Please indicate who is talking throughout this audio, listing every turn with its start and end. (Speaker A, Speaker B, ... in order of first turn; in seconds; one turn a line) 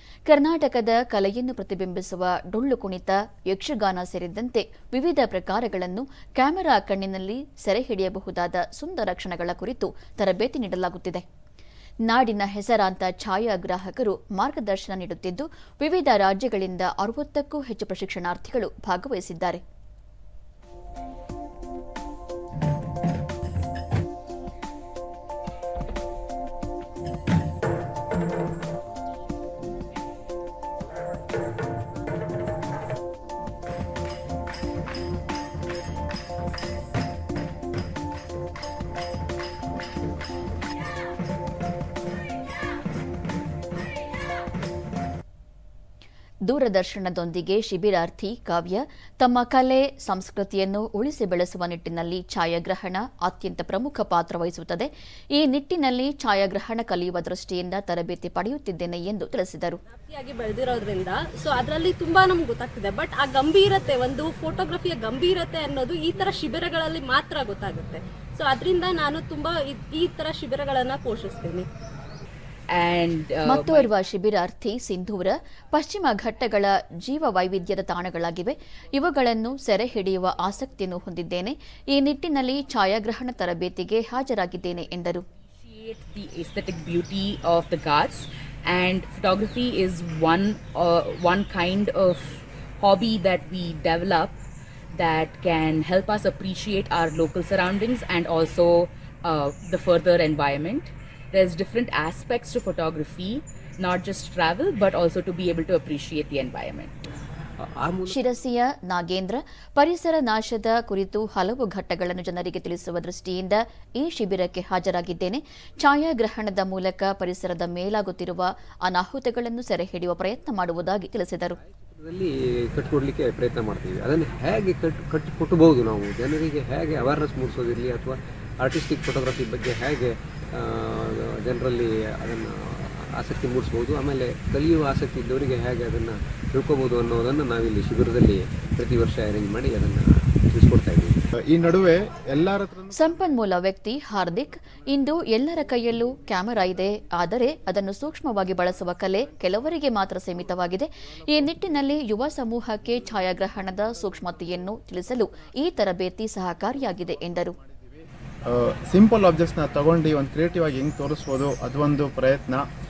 Speaker A: 0.3-11.2
Speaker A: 12.1-19.6
Speaker A: 46.5-59.8
Speaker B: 60.1-71.7
Speaker C: 72.7-73.9
Speaker A: 73.5-85.2
Speaker C: 85.6-94.3
Speaker C: 94.9-107.1
Speaker D: 107.6-108.2
Speaker A: 108.1-121.6
Speaker D: 121.7-141.2
Speaker E: 141.4-143.4
Speaker A: 142.9-157.6
Speaker E: 146.5-146.8
Speaker E: 148.9-149.2
Speaker E: 150.5-151.7
Speaker E: 153.9-155.5
Speaker E: 156.8-162.7